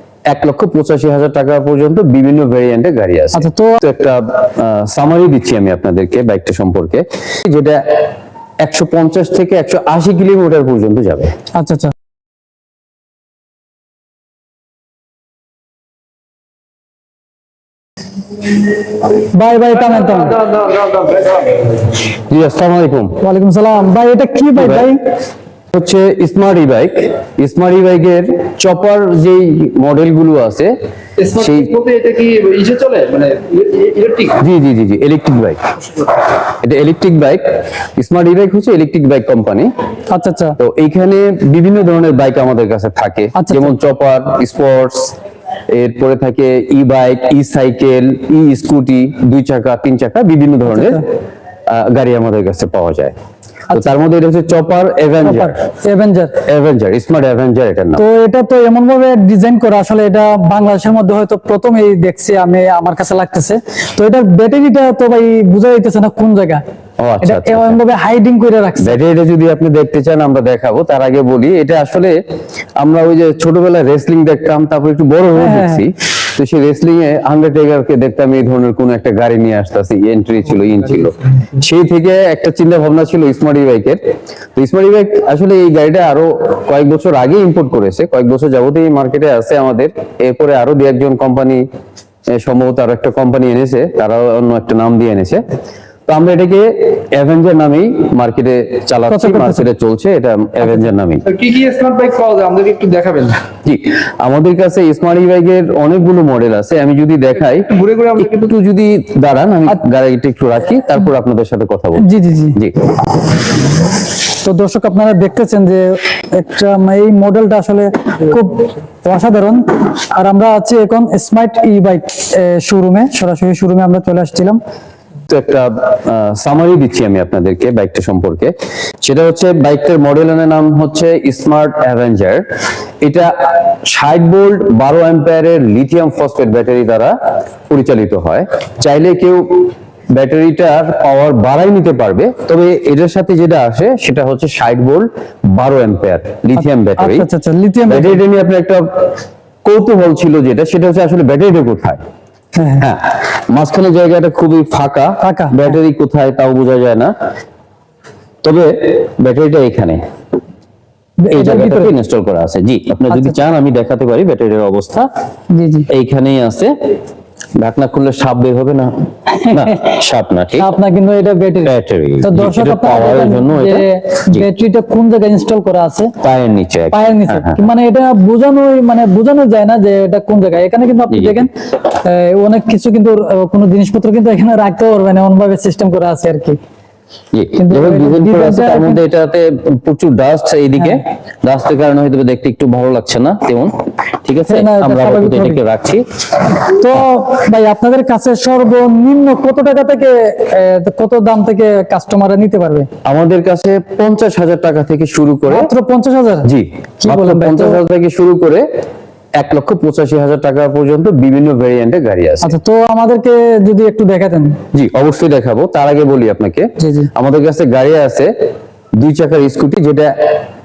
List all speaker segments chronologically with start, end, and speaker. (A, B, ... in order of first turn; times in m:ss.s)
0:00.3-0:08.1 A
0:03.3-0:03.8 B
0:08.6-0:11.3 A
0:11.6-0:11.9 B
0:19.1-0:20.4 B
0:19.8-0:22.0 C
0:22.1-0:23.2 A
0:23.2-0:25.0 B
0:24.6-0:24.9 A
0:25.7-0:30.7 A
0:31.2-0:34.4 C
0:31.3-0:31.7 A
0:34.4-0:35.6 A
0:36.4-0:39.7 A
0:40.1-0:40.6 B
0:40.6-0:45.2 A
0:43.4-0:43.7 B
0:45.7-0:51.0 A
0:50.7-0:51.0 B
0:51.7-0:53.1 A
0:53.7-0:55.5 A
0:55.2-0:56.4 B
0:56.4-0:58.0 A
0:58.0-1:06.6 B
1:07.0-1:07.8 A
1:07.2-1:09.0 B
1:08.8-1:12.2 A
1:12.8-1:24.0 A
1:15.4-1:15.8 B
1:24.6-1:31.6 A
1:32.3-1:35.4 A
1:36.1-1:41.2 A
1:39.1-1:39.6 B
1:41.2-1:43.4 C
1:43.6-1:52.9 A
1:47.7-1:48.5 C
1:52.0-1:52.6 B
1:54.2-2:04.6 B
2:05.3-2:12.4 A
2:13.0-2:17.1 A
2:17.7-2:27.3 A
2:26.6-2:28.2 B
2:27.9-2:29.1 A
2:29.6-2:32.0 A
2:32.5-2:32.9 B
2:32.8-2:37.1 A
2:35.2-2:35.7 B
2:38.4-2:40.0 A
2:41.2-2:41.9 B
2:41.3-2:45.1 A
2:45.5-2:45.9 B
2:45.9-2:46.7 A
2:47.6-2:48.9 A
2:49.3-2:49.9 B
2:49.4-2:50.7 A
2:50.6-2:56.1 B
2:51.6-2:54.5 A
2:56.2-2:57.6 A
2:56.9-3:06.6 B
3:01.1-3:01.5 A
3:07.3-3:16.0 A
3:07.6-3:09.0 B
3:14.5-3:15.6 B
3:16.6-3:22.9 B
3:23.0-3:25.7 A
3:25.5-3:26.5 B
3:26.4-3:28.6 A
3:27.0-3:27.8 B
3:29.4-3:32.5 A
3:32.4-3:34.6 B
3:34.7-3:38.3 A
3:36.8-3:37.1 B
3:39.0-3:40.4 A